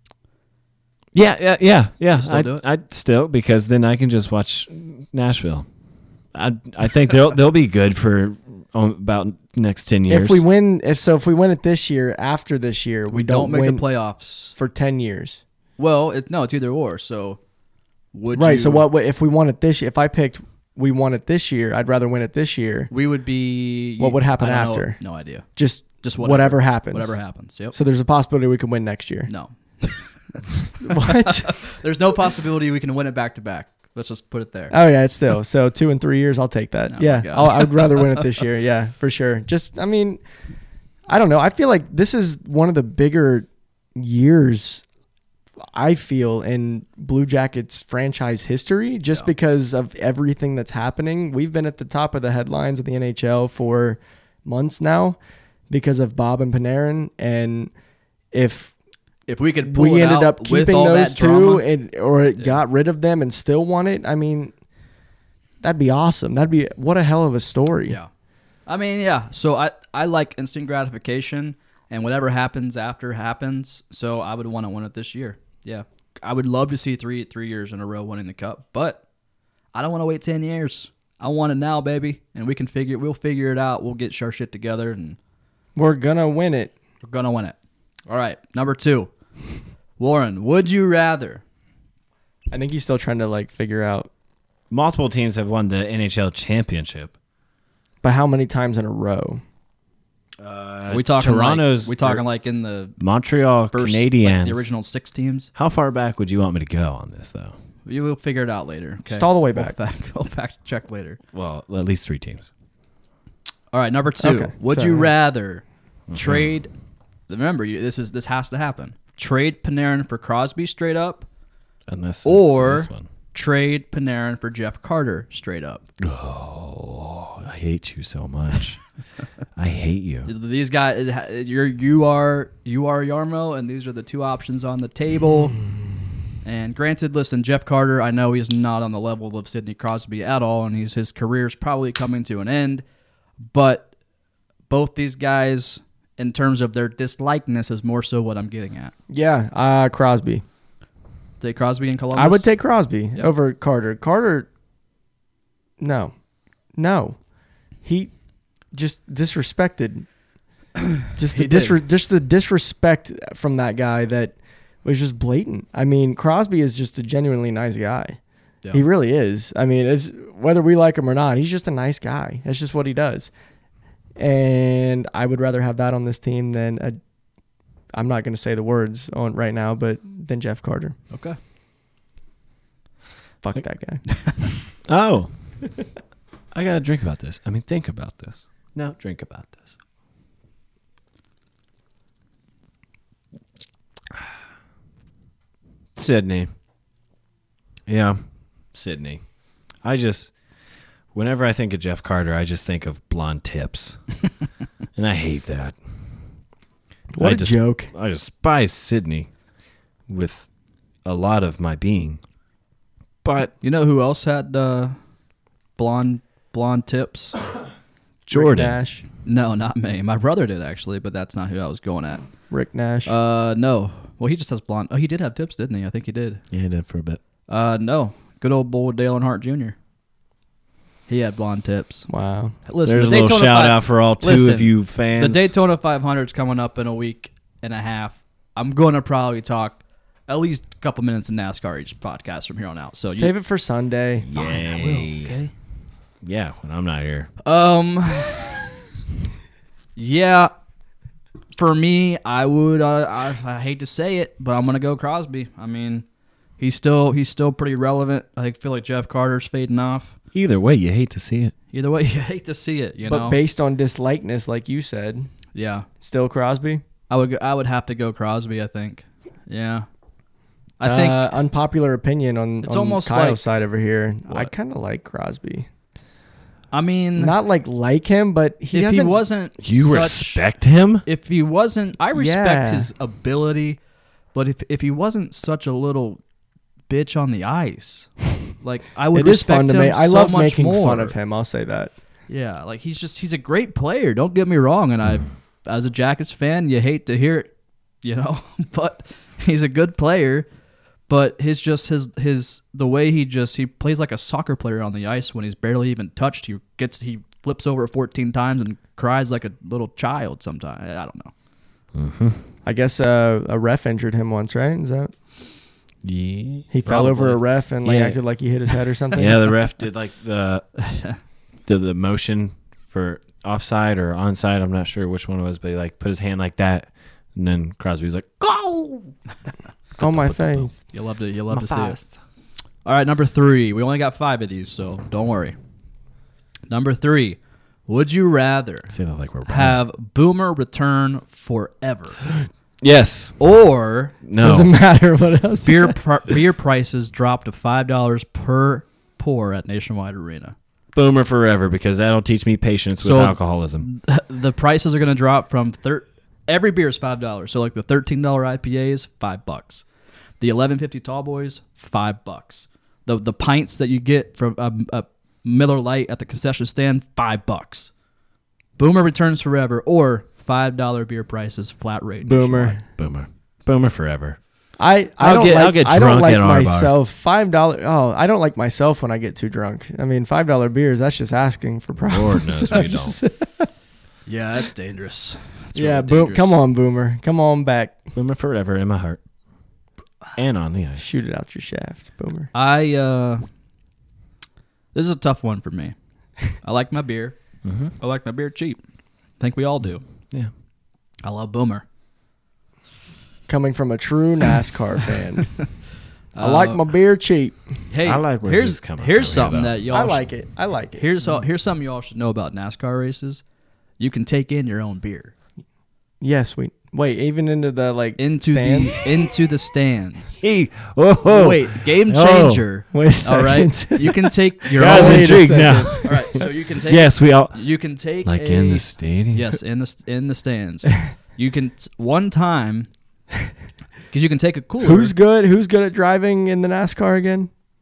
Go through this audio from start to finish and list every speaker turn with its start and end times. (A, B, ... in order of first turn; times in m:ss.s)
0:01.1-0:05.7 A
0:02.1-0:02.6 B
0:06.3-0:10.4 A
0:10.1-0:13.9 C
0:13.1-0:14.6 B
0:14.6-0:15.4 C
0:15.8-0:17.4 B
0:18.1-0:18.9 B
0:18.3-0:22.9 C
0:22.9-0:27.8 B
0:24.0-0:25.0 C
0:25.6-0:27.2 C
0:27.7-0:29.3 C
0:29.3-0:34.8 B
0:30.8-0:31.6 C
0:34.7-0:40.2 C
0:36.9-0:38.3 B
0:41.1-0:44.8 C
0:45.6-0:55.2 C
0:55.7-0:57.7 C
0:58.3-0:58.8 C
0:59.3-1:01.7 B
0:59.6-1:04.5 C
1:05.6-1:08.0 C
1:08.7-1:19.0 B
1:19.7-1:25.2 B
1:25.8-1:26.8 C
1:27.0-1:27.6 B
1:28.1-1:29.1 B
1:30.0-1:31.4 B
1:32.5-1:34.1 C
1:34.7-1:37.1 A
1:38.0-1:39.4 C
1:40.4-1:42.2 A
1:40.9-1:43.0 B
1:43.0-1:44.7 A
1:43.7-1:45.5 B
1:45.6-1:47.5 A
1:47.9-1:51.2 B
1:49.0-1:49.8 C
1:51.3-1:52.5 A
1:53.7-1:56.7 B
1:54.2-1:55.1 C
1:56.1-1:56.5 A
1:57.3-2:01.3 B
2:01.9-2:03.1 A
2:02.2-2:05.8 B
2:06.0-2:09.0 A
2:09.6-2:10.3 A
2:10.3-2:15.6 B
2:16.4-2:22.8 B
2:23.4-2:23.9 B
2:24.7-2:28.9 B
2:29.1-2:30.4 C
2:31.4-2:32.5 B
2:32.1-2:34.5 C
2:35.8-2:36.1 C
2:36.8-2:37.2 C
2:37.8-2:38.1 C
2:38.7-2:40.1 C
2:41.2-2:48.2 C
2:41.3-2:41.8 B
2:48.7-2:53.3 C
2:54.2-2:57.0 C
2:57.9-3:01.0 C
3:01.1-3:01.4 B
3:03.4-3:04.0 C
3:04.8-3:05.3 A
3:06.5-3:09.6 A
3:16.0-3:16.5 A
3:17.9-3:18.2 A
3:18.7-3:19.2 A
3:19.8-3:20.3 A
3:21.1-3:24.2 A
3:25.0-3:25.8 A
3:27.1-3:27.9 C
3:27.2-3:29.3 A
3:30.1-3:30.5 A
3:31.0-3:32.2 A
3:33.2-3:33.5 A
3:33.6-3:35.0 B
3:35.8-3:37.4 B
3:38.3-3:38.8 A
3:38.3-3:39.1 C
3:39.2-3:42.3 B
3:42.5-3:43.1 C
3:43.0-3:46.4 B
3:46.5-3:47.2 A
3:47.5-3:49.8 B
3:51.1-3:52.1 B
3:52.1-3:52.6 C
3:52.6-4:03.3 B
3:52.8-3:55.5 A
4:03.1-4:04.3 C
4:04.3-4:05.4 A
4:04.3-4:05.5 B
4:06.2-4:07.3 A
4:07.4-4:08.7 B
4:10.0-4:10.5 B
4:11.6-4:16.0 B
4:16.6-4:20.2 B
4:20.3-4:21.5 A
4:21.7-4:23.4 B
4:23.1-4:25.3 C
4:25.5-4:25.9 B
4:26.0-4:26.8 C
4:27.1-4:29.9 B
4:30.8-4:31.3 B
4:30.8-4:35.7 C
4:32.6-4:33.4 B
4:34.3-4:34.5 B
4:36.7-4:37.4 B
4:37.2-4:39.2 C
4:38.7-4:40.5 B
4:39.6-4:41.0 A
4:41.0-4:43.8 B
4:42.1-4:42.9 C
4:44.3-4:46.2 B
4:46.9-4:51.2 B
4:49.1-4:51.9 C
4:52.3-4:57.5 B
4:58.0-5:00.5 B
5:01.1-5:11.3 B
5:12.0-5:12.4 A
5:12.6-5:15.1 C
5:16.0-5:16.7 A
5:16.7-5:19.4 C
5:16.8-5:18.2 B
5:19.2-5:20.7 A
5:20.8-5:21.2 B
5:21.6-5:29.1 A
5:30.0-5:30.8 A
5:30.0-5:30.7 C
5:30.9-5:32.0 B
5:31.5-5:32.1 A
5:32.8-5:35.6 B
5:36.7-5:42.2 B
5:38.9-5:39.8 A
5:42.8-5:43.4 A
5:43.4-5:44.2 B
5:44.2-5:44.7 A
5:44.4-5:46.0 C
5:45.6-5:50.6 B
5:50.9-5:53.9 A
5:53.0-5:59.8 B
6:00.4-6:07.9 B
6:08.8-6:12.8 B
6:12.2-6:12.8 C
6:13.0-6:14.4 A
6:14.8-6:23.7 C
6:15.2-6:16.9 A
6:22.0-6:23.2 A
6:24.3-6:26.6 B
6:25.7-6:28.0 C
6:28.2-6:29.2 A
6:30.4-6:31.2 A
6:31.0-6:32.5 C
6:32.5-6:33.4 B
6:34.9-6:37.4 B
6:37.6-6:37.9 A
6:38.0-6:38.8 B
6:39.4-6:40.0 B
6:41.2-6:41.8 B
6:43.5-6:45.6 C
6:46.3-6:46.8 B
6:46.4-6:47.6 C
6:47.9-6:50.3 B
6:48.0-6:49.8 A
6:49.9-6:51.4 C
6:51.0-6:53.4 B
6:54.0-6:55.3 B
6:56.2-6:59.1 C
6:58.2-7:00.4 B
7:00.4-7:02.6 A
7:01.2-7:12.9 B
7:02.9-7:06.4 C
7:04.8-7:09.6 A
7:14.1-7:15.2 B
7:14.8-7:17.5 C